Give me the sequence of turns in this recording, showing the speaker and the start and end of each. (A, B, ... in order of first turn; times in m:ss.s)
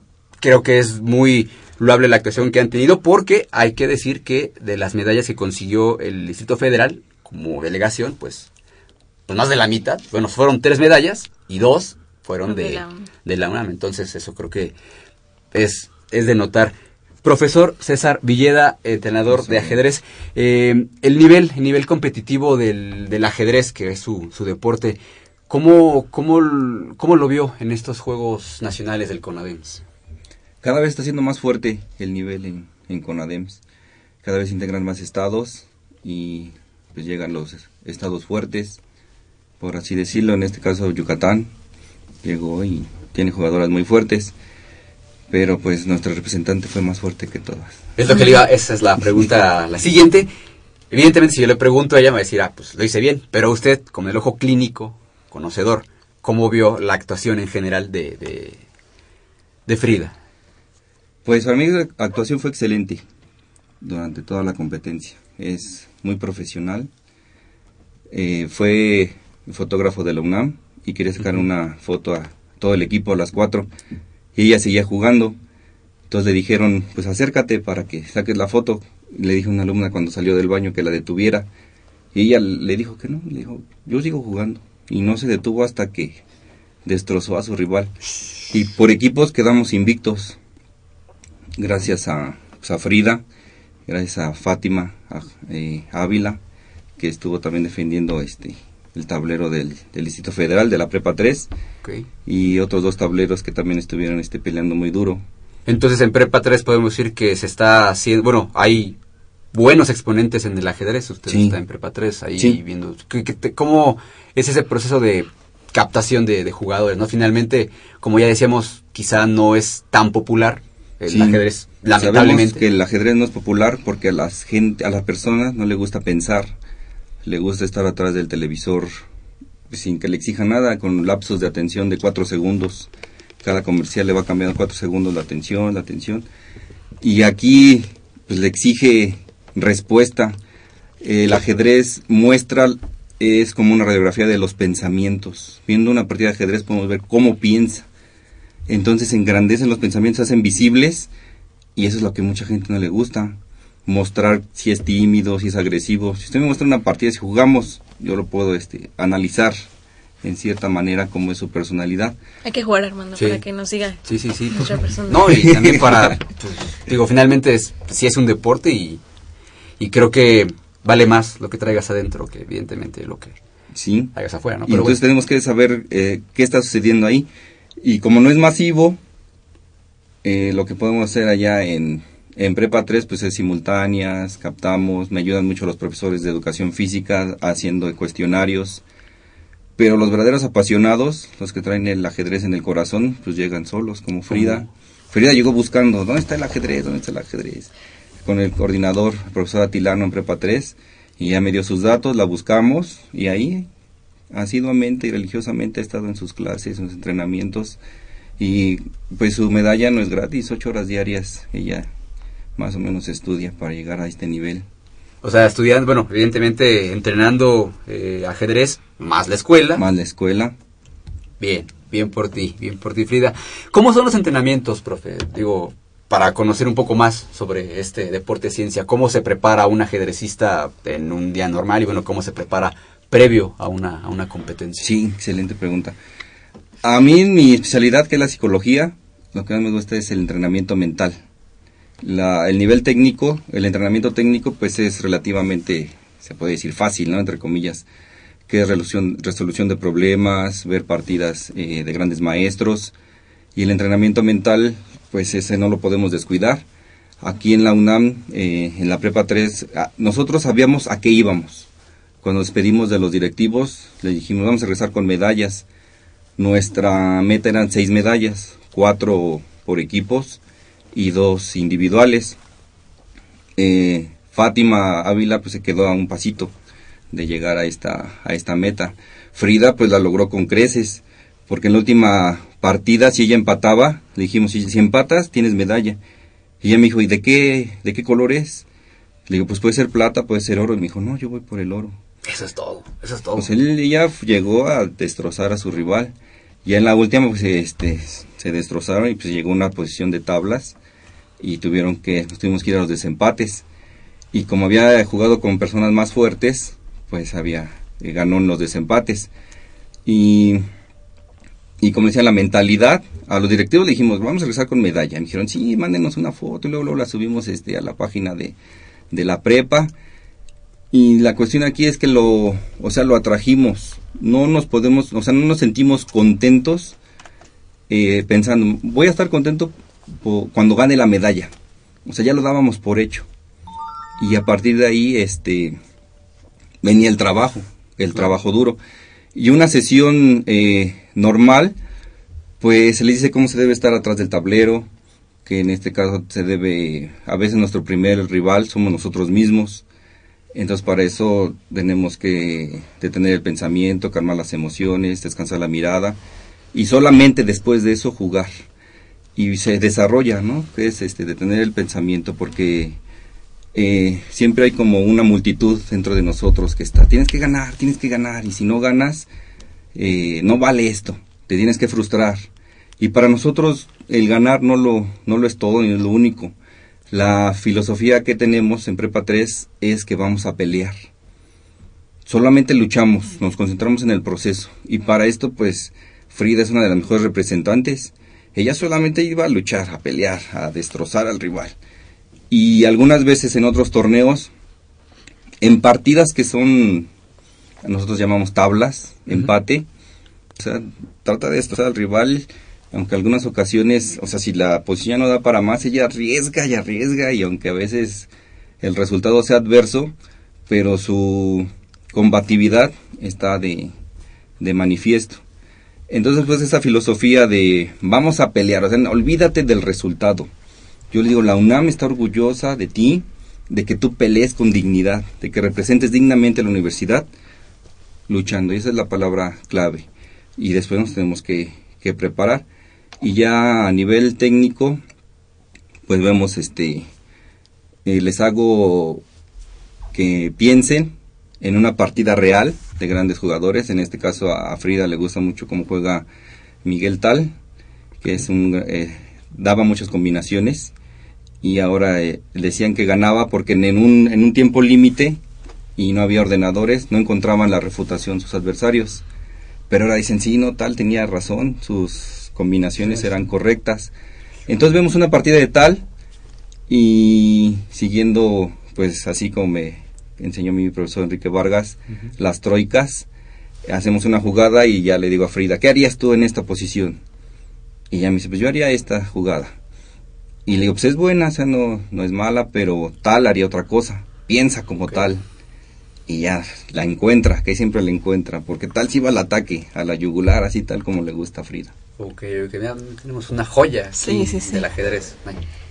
0:00.4-0:08.5 A
0:09.3-0:14.8 A
0:12.5-0:13.1 B
0:15.5-0:29.8 A
0:19.3-0:19.8 C
0:30.6-0:33.6 C
0:34.2-0:38.8 C
0:39.6-0:41.5 C
0:42.2-0:44.3 C
0:45.3-0:47.8 C
0:48.0-0:50.3 A
0:50.9-0:58.6 A
0:59.7-1:00.2 A
1:01.2-1:03.0 C
1:03.8-1:06.9 C
1:08.1-1:13.7 C
1:14.4-1:15.4 C
1:16.1-1:21.5 C
1:22.1-1:26.2 C
1:26.8-1:27.9 C
1:28.5-1:30.4 C
1:31.6-1:33.2 C
1:33.9-1:36.4 C
1:37.0-1:41.5 C
1:41.8-1:42.1 A
1:42.3-1:45.2 C
1:45.7-1:49.0 A
1:49.5-2:02.6 A
1:51.3-1:51.6 C
2:01.1-2:06.6 C
2:07.2-2:09.0 C
2:09.7-2:12.9 C
2:13.4-2:16.3 C
2:17.0-2:20.4 C
2:21.0-2:27.9 C
2:28.7-2:31.1 C
2:31.8-2:39.6 C
2:40.2-2:42.2 C
2:42.4-2:45.5 B
2:43.2-2:43.4 A
2:44.0-2:49.0 A
2:49.8-2:53.4 A
2:53.7-2:54.1 C
2:54.2-2:55.0 A
2:54.7-2:57.3 C
2:57.8-2:59.0 C
3:00.2-3:08.8 C
3:09.8-3:17.7 C
3:14.3-3:14.7 A
3:18.2-3:23.7 C
3:24.3-3:27.8 C
3:28.4-3:31.9 C
3:32.6-3:34.7 C
3:35.2-3:39.8 A
3:39.8-3:40.6 C
3:41.4-3:54.9 A
3:54.8-3:56.0 C
3:56.8-4:01.2 C
4:02.0-4:07.9 C
4:08.5-4:13.0 C
4:13.6-4:16.7 C
4:17.2-4:21.7 C
4:22.2-4:25.7 C
4:26.4-4:30.4 C
4:30.9-4:32.4 C
4:33.6-4:36.5 C
4:37.1-4:46.0 C
4:46.6-4:48.6 C
4:49.3-4:52.0 C
4:52.2-4:53.5 A
4:53.4-4:56.1 C
4:56.6-5:00.8 C
5:01.4-5:03.6 C
5:04.3-5:09.3 C
5:10.1-5:10.6 C
5:11.8-5:18.6 C
5:19.1-5:19.9 C
5:20.9-5:27.0 C
5:27.9-5:31.5 C
5:32.0-5:33.3 C
5:34.2-5:35.8 C
5:36.8-5:38.8 C
5:39.4-5:41.8 C
5:42.6-5:44.9 C
5:45.5-5:49.8 C
5:50.5-5:56.2 C
5:56.7-5:58.6 C
5:59.4-6:03.0 C
6:03.7-6:09.3 C
6:10.0-6:12.5 C
6:13.0-6:16.5 C
6:17.1-6:21.1 C
6:22.3-6:31.8 C
6:32.5-6:34.5 C
6:35.6-6:37.1 C
6:37.8-6:39.9 C
6:40.6-6:48.3 C
6:48.8-6:50.2 C
6:50.7-6:53.9 C
6:54.6-6:55.4 C
6:56.1-7:00.5 C
7:01.1-7:07.3 C
7:08.3-7:12.7 C
7:13.2-7:15.0 C
7:16.1-7:17.1 C
7:18.0-7:19.2 C
7:20.1-7:26.3 C
7:26.8-7:27.6 C
7:28.2-7:30.9 C
7:31.6-7:35.4 C
7:36.0-7:39.2 C
7:39.9-7:44.1 C
7:44.7-7:46.1 C
7:46.9-7:53.3 C
7:53.8-7:57.2 C
7:58.1-7:59.7 C
8:00.7-8:05.4 C
8:06.3-8:11.9 C
8:12.2-8:15.6 A
8:14.2-8:14.9 B